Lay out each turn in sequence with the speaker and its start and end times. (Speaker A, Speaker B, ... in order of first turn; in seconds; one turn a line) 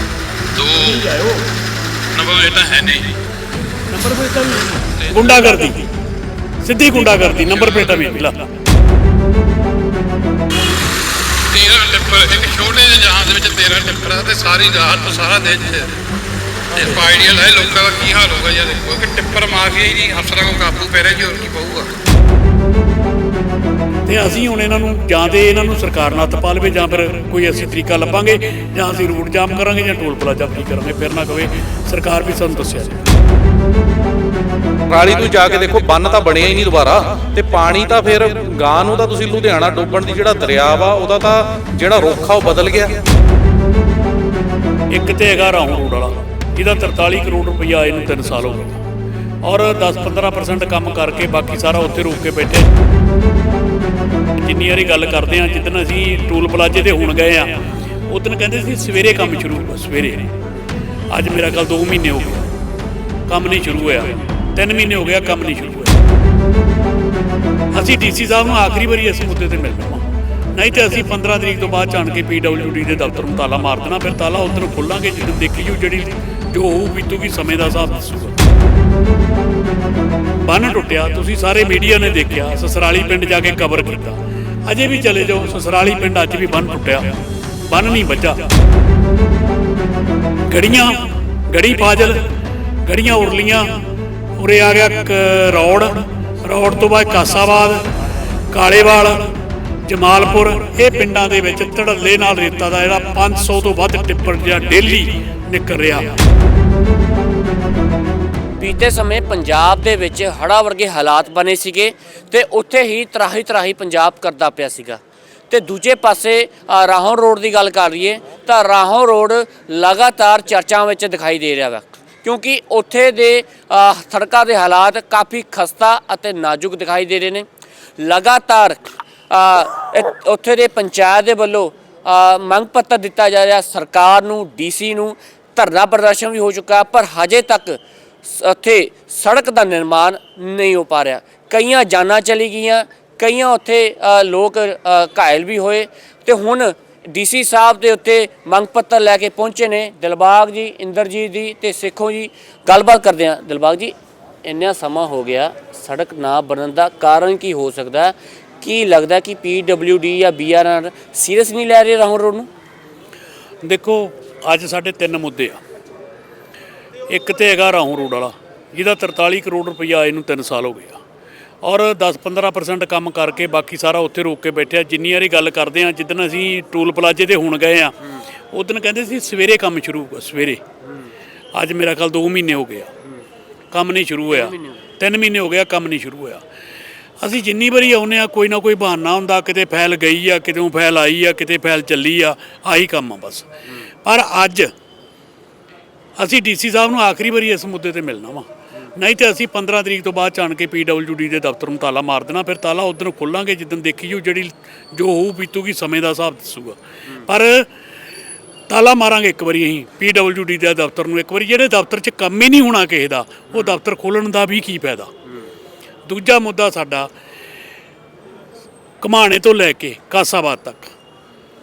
Speaker A: 0.6-1.0
Speaker B: 0.7-1.4
Speaker A: 2.1-3.0
Speaker B: 3.9-5.8
Speaker B: 6.6-8.5
Speaker A: 7.5-7.9
Speaker C: 11.5-15.9
Speaker B: 16.7-17.2
Speaker C: 16.8-21.9
Speaker B: 24.1-33.1
Speaker A: 34.9-43.0
Speaker B: 44.9-48.8
Speaker B: 49.4-52.7
Speaker B: 54.4-60.3
Speaker B: 61.1-62.5
Speaker B: 63.3-66.0
Speaker B: 67.7-78.3
Speaker B: 80.4-88.5
Speaker B: 90.5-92.2
Speaker B: 92.8-93.8
Speaker B: 94.3-97.8
Speaker B: 98.5-99.3
Speaker B: 99.8-106.2
Speaker D: 108.6-127.5
Speaker D: 128.0-162.5
Speaker B: 163.6-165.6
Speaker B: 167.1-171.0
Speaker B: 171.6-177.9
Speaker B: 178.5-180.6
Speaker D: 180.8-181.1
Speaker B: 181.5-182.9
Speaker B: 183.7-186.4
Speaker D: 184.3-184.8
Speaker B: 187.2-193.5
Speaker B: 194.0-194.7
Speaker B: 196.2-207.7
Speaker B: 208.7-215.1
Speaker D: 213.5-213.8
Speaker B: 216.1-217.1
Speaker B: 219.0-220.9